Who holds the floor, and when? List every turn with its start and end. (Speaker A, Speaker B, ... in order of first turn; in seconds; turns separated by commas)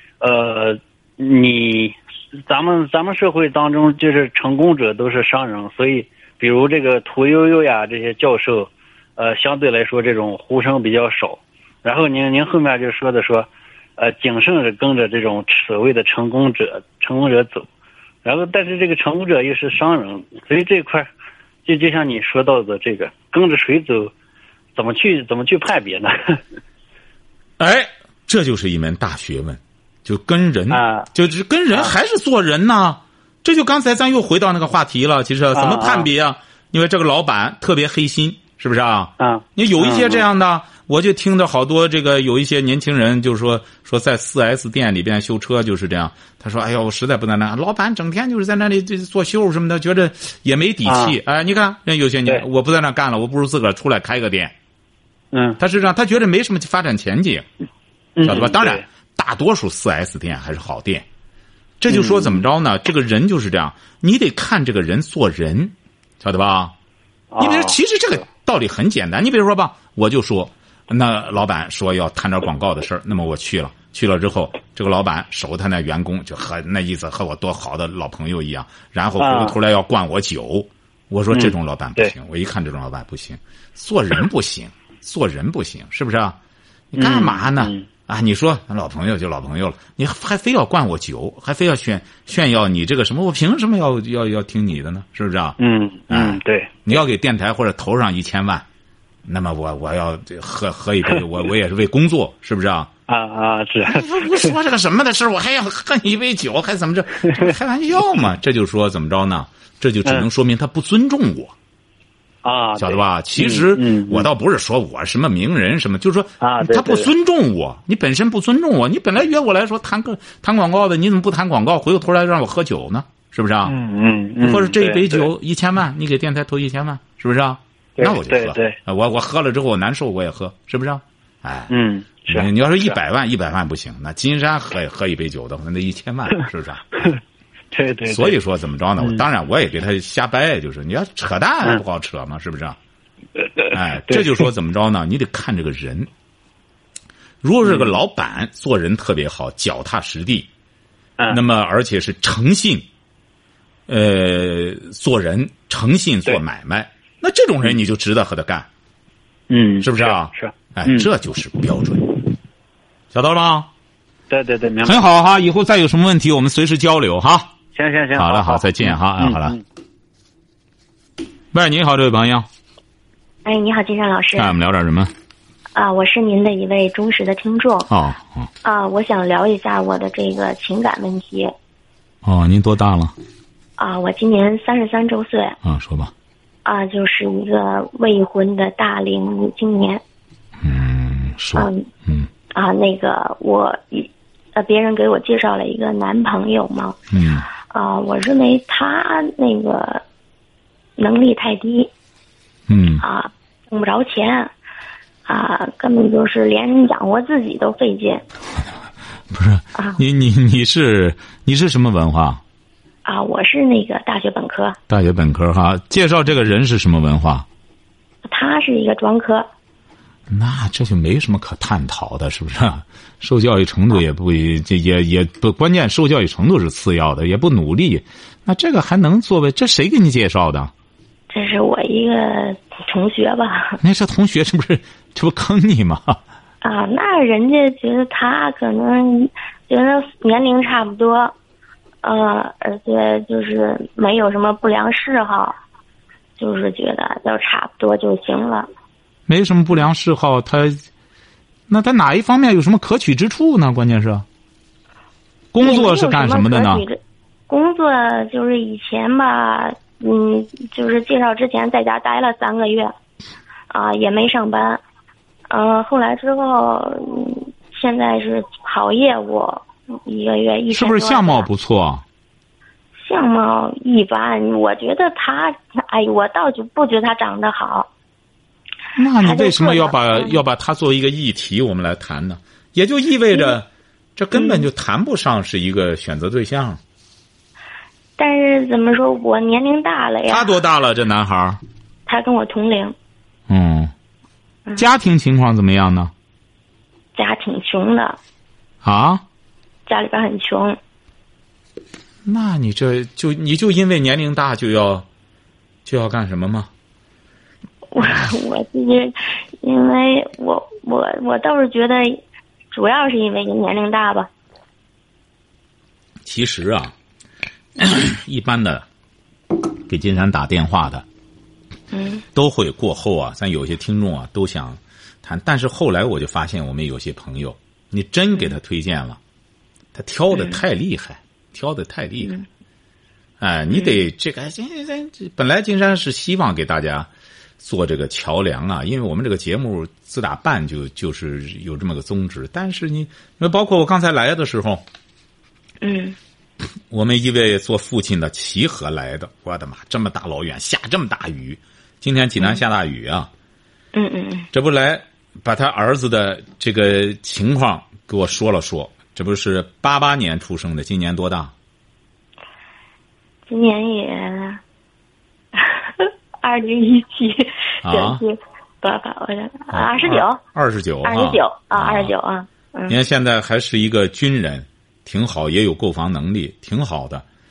Speaker A: 0.2-17.7, Speaker A: 18.2-21.1, Speaker A: 21.6-24.1, Speaker A: 24.7-26.4, Speaker B: 27.6-54.5, Speaker A: 30.7-31.1, Speaker A: 35.5-36.1, Speaker A: 39.2-40.2, Speaker A: 50.9-51.2, Speaker A: 55.3-55.6, Speaker B: 55.6-57.5, Speaker A: 58.1-58.8, Speaker B: 58.2-61.0, Speaker B: 61.8-66.7, Speaker A: 61.9-62.4, Speaker A: 67.3-67.8, Speaker B: 67.4-86.4, Speaker A: 79.2-79.5, Speaker A: 81.3-82.1, Speaker B: 86.9-95.6, Speaker A: 87.0-87.9, Speaker A: 95.6-97.0, Speaker B: 96.1-98.7, Speaker B: 99.2-102.9, Speaker A: 103.1-104.5, Speaker B: 103.8-111.5, Speaker A: 107.2-107.5, Speaker A: 112.4-114.3, Speaker B: 112.8-123.7, Speaker A: 116.4-117.1, Speaker A: 123.6-125.3, Speaker B: 124.4-131.7, Speaker A: 128.0-128.8, Speaker A: 131.7-132.9, Speaker B: 132.3-136.9, Speaker A: 137.7-138.4, Speaker B: 138.1-142.8, Speaker A: 143.4-144.5, Speaker B: 143.7-146.1, Speaker B: 147.4-150.5, Speaker A: 147.6-148.0, Speaker B: 151.3-152.8, Speaker B: 153.9-158.7, Speaker A: 159.5-161.1, Speaker B: 159.8-162.2, Speaker B: 163.1-163.7, Speaker A: 164.3-165.0, Speaker B: 164.8-167.5, Speaker A: 167.7-169.6, Speaker B: 168.2-169.6, Speaker B: 171.5-172.4, Speaker C: 173.4-174.6, Speaker B: 174.4-175.1, Speaker C: 175.7-177.9, Speaker B: 177.9-178.5, Speaker C: 178.6-181.5, Speaker B: 182.2-183.1, Speaker C: 183.8-185.6, Speaker B: 185.6-186.1, Speaker C: 186.6-190.0, Speaker B: 190.6-192.3, Speaker C: 191.6-191.8, Speaker C: 192.5-196.9, Speaker B: 197.1-197.5, Speaker C: 197.7-200.0, Speaker C: 201.0-201.9, Speaker B: 202.7-203.0, Speaker C: 203.0-204.5, Speaker C: 205.2-208.2, Speaker B: 209.3-212.4, Speaker C: 213.0-214.8, Speaker B: 214.9-217.5, Speaker C: 218.3-219.5, Speaker B: 220.3-230.7, Speaker C: 231.3-233.8, Speaker B: 233.8-236.2, Speaker C: 236.6-241.3, Speaker C: 242.0-245.5, Speaker C: 246.4-248.7, Speaker B: 249.3-250.8, Speaker B: 251.7-254.2, Speaker B: 255.5-256.8, Speaker C: 255.6-257.0, Speaker C: 257.5-262.9, Speaker C: 263.7-264.8, Speaker C: 265.5-271.5, Speaker B: 270.7-272.0, Speaker C: 273.0-277.9, Speaker B: 278.9-283.6, Speaker C: 279.2-280.4, Speaker B: 284.1-286.8, Speaker C: 284.3-284.7, Speaker C: 288.2-290.6, Speaker B: 290.3-291.6, Speaker C: 292.1-292.9, Speaker B: 293.5-293.9, Speaker B: 294.8-296.1, Speaker C: 297.1-298.2, Speaker B: 298.8-299.2, Speaker C: 299.9-300.8, Speaker B: 302.2-305.1, Speaker B: 305.8-306.7, Speaker C: 307.9-312.2, Speaker C: 312.7-314.3, Speaker B: 316.2-316.9, Speaker B: 317.8-318.9, Speaker B: 319.9-321.0, Speaker C: 321.9-322.2, Speaker B: 322.3-329.2, Speaker B: 329.9-332.4, Speaker B: 333.4-337.1, Speaker C: 333.7-334.0, Speaker B: 337.6-344.8, Speaker C: 345.8-346.2, Speaker B: 346.9-353.3, Speaker C: 353.9-354.5, Speaker B: 354.5-361.5, Speaker C: 363.5-364.6, Speaker C: 365.5-370.4, Speaker B: 367.8-368.2, Speaker B: 369.7-372.1, Speaker C: 371.0-373.0, Speaker B: 372.9-377.2